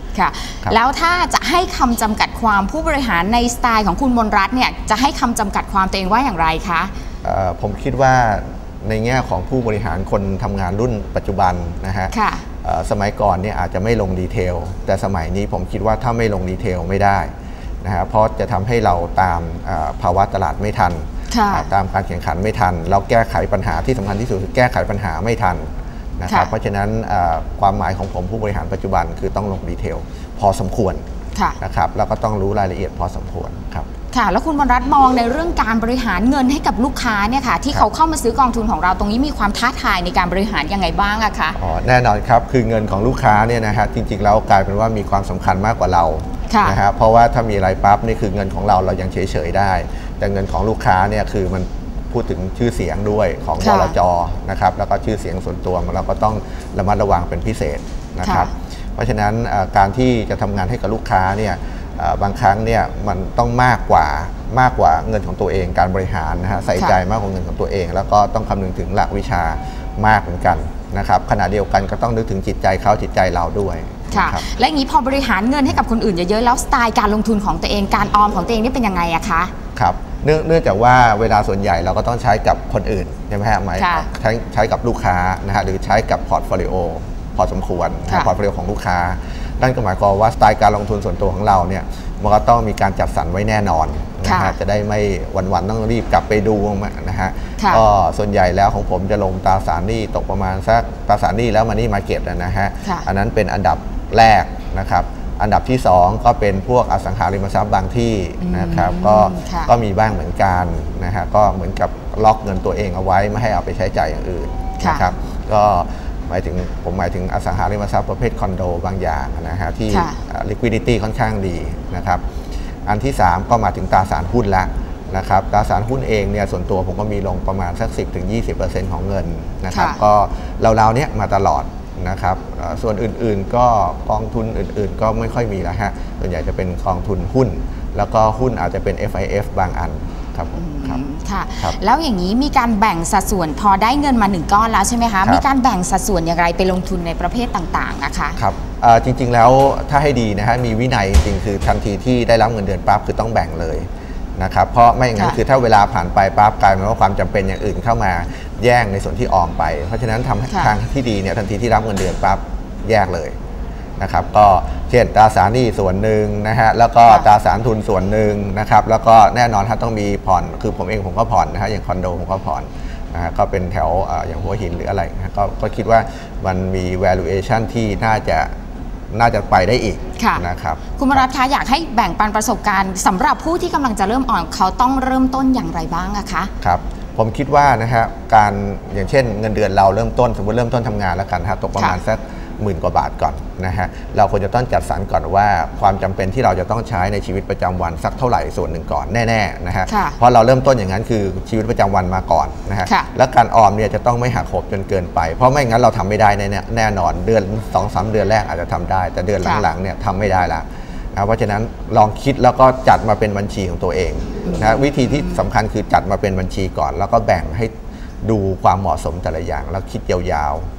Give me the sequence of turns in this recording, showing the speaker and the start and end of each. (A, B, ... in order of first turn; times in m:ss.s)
0:00.1-0:06.9 A
0:07.2-0:17.3 B
0:12.1-0:12.5 A
0:17.8-0:25.6 B
0:21.3-0:21.7 A
0:26.2-0:31.0 B
0:26.3-0:26.5 A
0:31.6-0:33.9 B
0:34.1-0:41.6 A
0:41.6-1:14.4 B
0:46.5-0:46.8 A
0:53.6-0:53.9 A
0:58.2-0:58.5 A
1:14.1-1:19.5 A
1:19.8-2:02.2 B
1:23.8-1:24.1 A
1:28.1-1:28.3 A
1:34.2-1:34.6 A
1:37.6-1:37.8 A
1:48.4-1:49.7 A
1:54.8-1:55.1 A
1:59.9-2:00.2 A
2:02.9-2:21.0 B
2:09.7-2:10.0 A
2:20.5-2:28.4 A
2:28.4-2:33.8 B
2:34.4-2:43.3 B
2:44.0-2:58.5 B
2:59.1-3:01.3 B
3:00.2-3:06.5 A
3:06.6-3:37.7 B
3:11.8-3:12.0 A
3:19.9-3:20.2 A
3:34.4-3:35.3 A
3:38.2-3:40.6 B